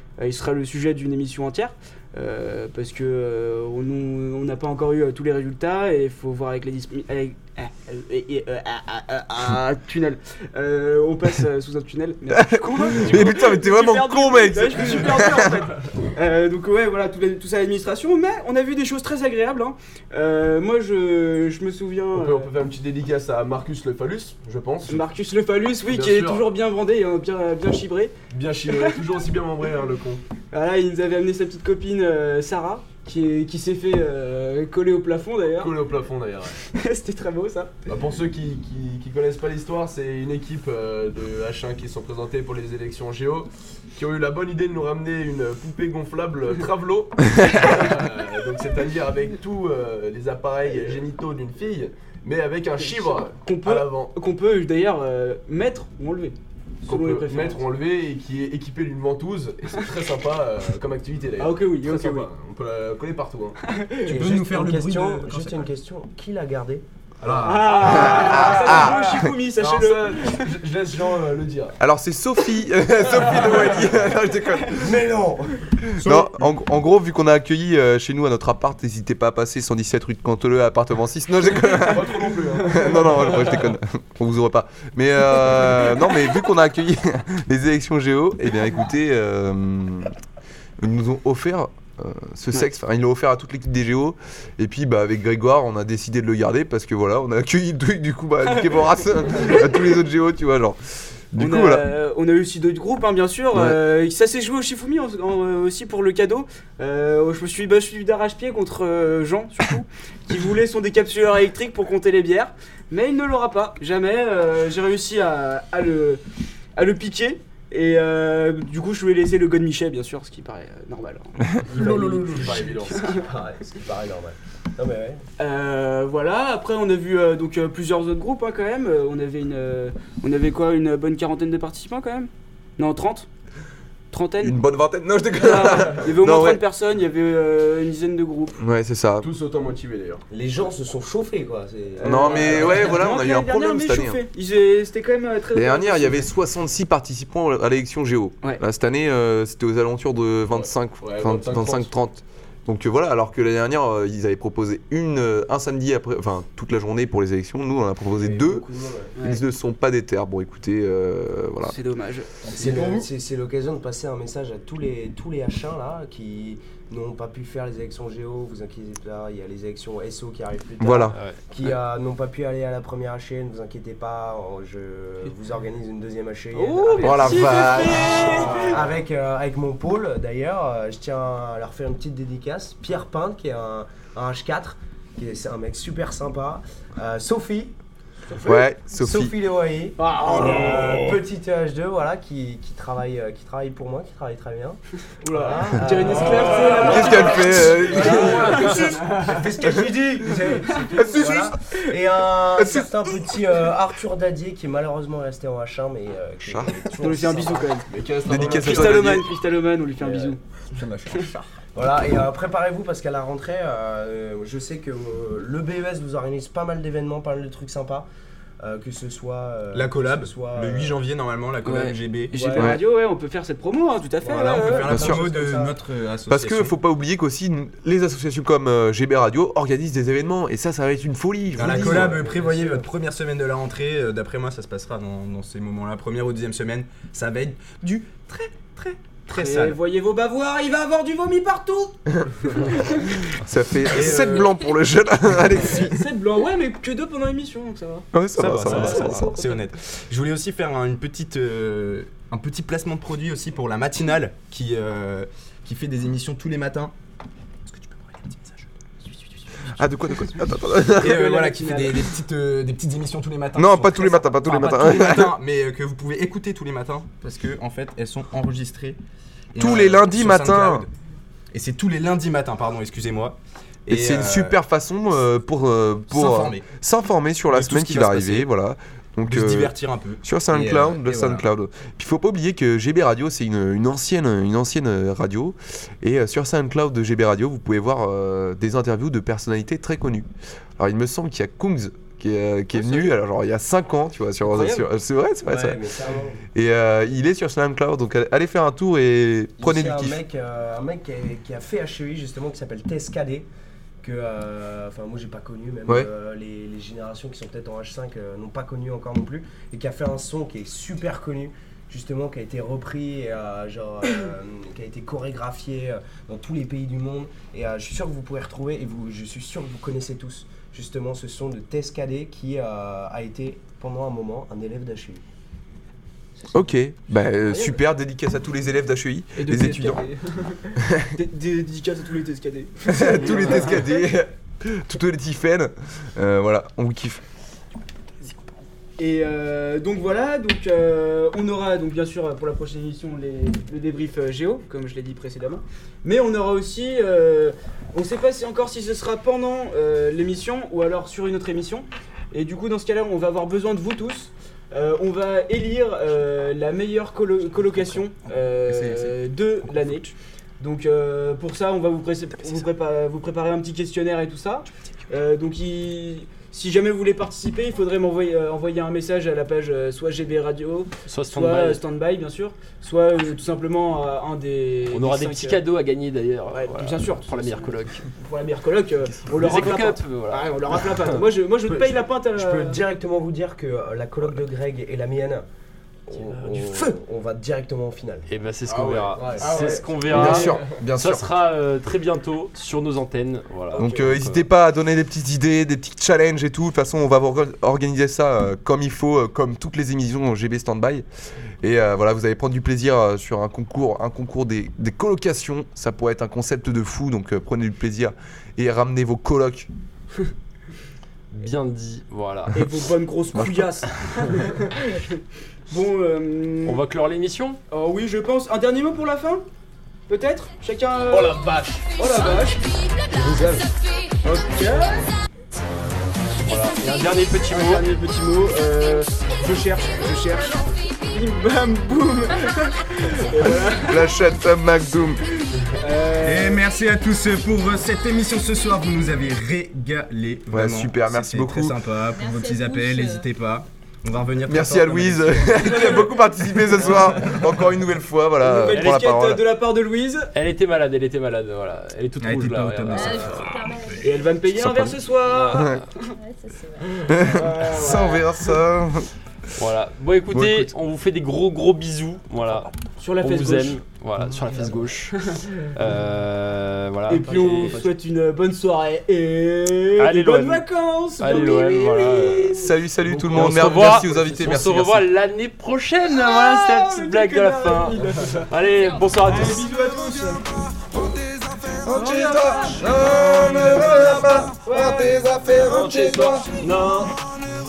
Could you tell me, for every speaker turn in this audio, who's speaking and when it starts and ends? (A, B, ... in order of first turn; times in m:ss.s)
0:00.2-0:22.5 A
0:12.3-0:15.5 B
0:22.1-0:25.0 C
0:24.8-0:29.2 A
0:25.9-0:26.5 C
0:28.3-0:30.2 C
0:30.5-0:35.8 A
0:35.6-0:36.6 C
0:36.6-0:37.7 A
0:37.9-0:54.1 C
0:47.6-0:47.9 A
0:52.8-0:57.6 A
0:56.8-1:03.6 C
1:01.4-1:02.3 A
1:03.6-1:04.2 A
1:04.1-1:06.8 D
1:04.1-1:05.7 E
1:07.2-1:11.8 C
1:07.2-1:07.8 E
1:07.4-1:10.5 A
1:07.8-1:09.3 B
1:11.8-1:14.9 B
1:13.2-1:13.9 A
1:14.8-1:15.8 D
1:16.0-1:16.5 E
1:16.0-1:30.1 B
1:21.7-1:23.7 C
1:22.7-1:23.0 A
1:30.8-1:40.8 B
1:38.4-1:40.0 A
1:41.3-1:41.8 B
1:41.4-1:56.2 A
1:43.5-1:43.8 B
1:56.8-2:03.3 A
2:01.6-2:03.2 C
2:03.2-2:05.2 D
2:05.4-2:13.3 A
2:14.1-2:14.6 A
2:14.4-2:16.6 B
2:15.3-2:18.6 A
2:18.6-2:19.3 B
2:19.2-2:20.2 C
2:20.3-2:22.5 D
2:22.0-2:26.3 A
2:22.0-2:24.2 B
2:22.3-2:22.9 C
2:25.5-2:38.6 B
2:30.5-2:31.9 C
2:38.2-2:38.5 E
2:38.4-2:39.1 D
2:39.1-2:39.4 A
2:39.2-2:41.8 B
2:41.6-2:42.4 A
2:42.4-2:43.1 E
2:42.5-2:57.7 D
2:50.8-2:51.2 B
2:51.1-2:51.4 F
2:56.5-2:58.9 A
2:57.0-2:58.5 B
2:58.4-3:07.7 D
3:08.3-3:08.6 A
3:08.4-3:09.3 B
3:08.9-3:27.7 D
3:10.0-3:11.2 A
3:15.2-3:19.6 A
3:16.5-3:17.0 C
3:16.8-3:18.6 B
3:17.5-3:19.0 C
3:20.6-3:21.0 A
3:20.9-3:21.6 B
3:22.5-3:23.3 B
3:26.4-3:26.8 B
3:27.0-3:30.4 A
3:27.9-3:29.2 C
3:28.3-3:29.2 B
3:30.0-3:30.3 C
3:30.7-3:31.5 E
3:31.7-3:38.1 D
3:38.6-3:41.0 D
3:39.7-3:42.6 E
3:41.6-3:42.0 F
3:42.3-3:45.0 A
3:42.5-3:42.8 B
3:44.2-3:45.8 D
3:44.2-3:46.7 E
3:44.9-3:45.2 B
3:46.3-3:52.1 B
3:51.6-3:59.8 E
3:51.6-3:52.9 D
3:59.3-4:03.3 A
4:03.4-4:06.0 B
4:03.9-4:04.6 A
4:04.0-4:04.4 E
4:05.6-4:09.6 A
4:08.1-4:09.3 B
4:08.3-4:16.9 E
4:17.6-4:18.7 E
4:19.6-4:20.3 A
4:19.8-4:21.2 B
4:20.9-4:22.1 A
4:21.0-4:29.0 E
4:23.6-4:25.4 B
4:29.5-4:30.9 E
4:29.6-4:30.9 B
4:31.5-4:34.5 E
4:33.9-4:55.8 B
4:36.1-4:36.7 E
4:37.5-4:38.5 E
4:39.3-4:41.4 E
4:54.4-4:54.7 D
4:55.4-4:56.4 D
4:56.5-5:00.2 B
4:59.6-5:03.5 D
5:04.0-5:25.2 D
5:26.5-5:30.0 B
5:27.5-5:27.8 A
5:29.4-5:34.1 A
5:30.8-5:31.1 B
5:32.8-5:37.2 B
5:39.0-6:15.6 A
5:58.7-6:00.0 E
6:11.1-6:11.8 F
6:14.9-6:18.1 F
6:16.5-6:22.8 A
6:19.2-6:21.2 F
6:21.6-6:25.4 D
6:26.1-6:28.3 D
6:28.2-6:34.4 F
6:28.6-6:30.7 C
6:30.1-6:31.3 B
6:33.7-6:34.0 A
6:33.8-6:41.0 B
6:41.6-6:49.7 B
6:51.3-6:52.6 F
6:52.5-6:56.8 A
6:53.3-6:53.7 B
6:56.6-6:57.6 F
6:57.7-6:59.4 A
7:00.1-7:02.7 A
7:01.1-7:01.7 F
7:03.1-7:03.7 D
7:04.2-7:05.0 A
7:06.4-7:07.8 F
7:07.5-7:14.2 A
7:13.6-7:15.2 B
7:15.7-7:16.7 A
7:16.2-7:25.6 E
7:20.5-7:21.8 B
7:22.0-7:23.3 G
7:24.5-7:29.4 B
7:25.6-7:26.2 A
7:26.8-7:27.2 A
7:28.4-7:30.3 A
7:28.7-7:29.0 F
7:30.3-7:33.6 F
7:32.2-7:33.3 E
7:32.9-7:34.4 G
7:34.0-7:36.1 A
7:34.5-7:35.0 B
7:35.3-7:35.8 F
7:36.2-7:37.2 G
7:37.1-7:39.1 B
7:37.2-7:38.5 A
7:39.6-7:45.2 F
7:40.3-7:40.7 B
7:43.0-7:43.8 A
7:45.2-7:45.7 A
7:45.7-7:47.9 F
7:47.1-7:52.7 A
7:50.0-7:50.6 F
7:51.2-7:52.5 F
7:52.5-7:55.1 B
7:53.1-7:59.8 F
7:53.4-7:53.8 A
7:56.1-7:58.5 A
7:59.2-8:00.4 A
8:00.9-8:06.5 B
8:01.8-8:07.0 A
8:05.6-8:07.1 F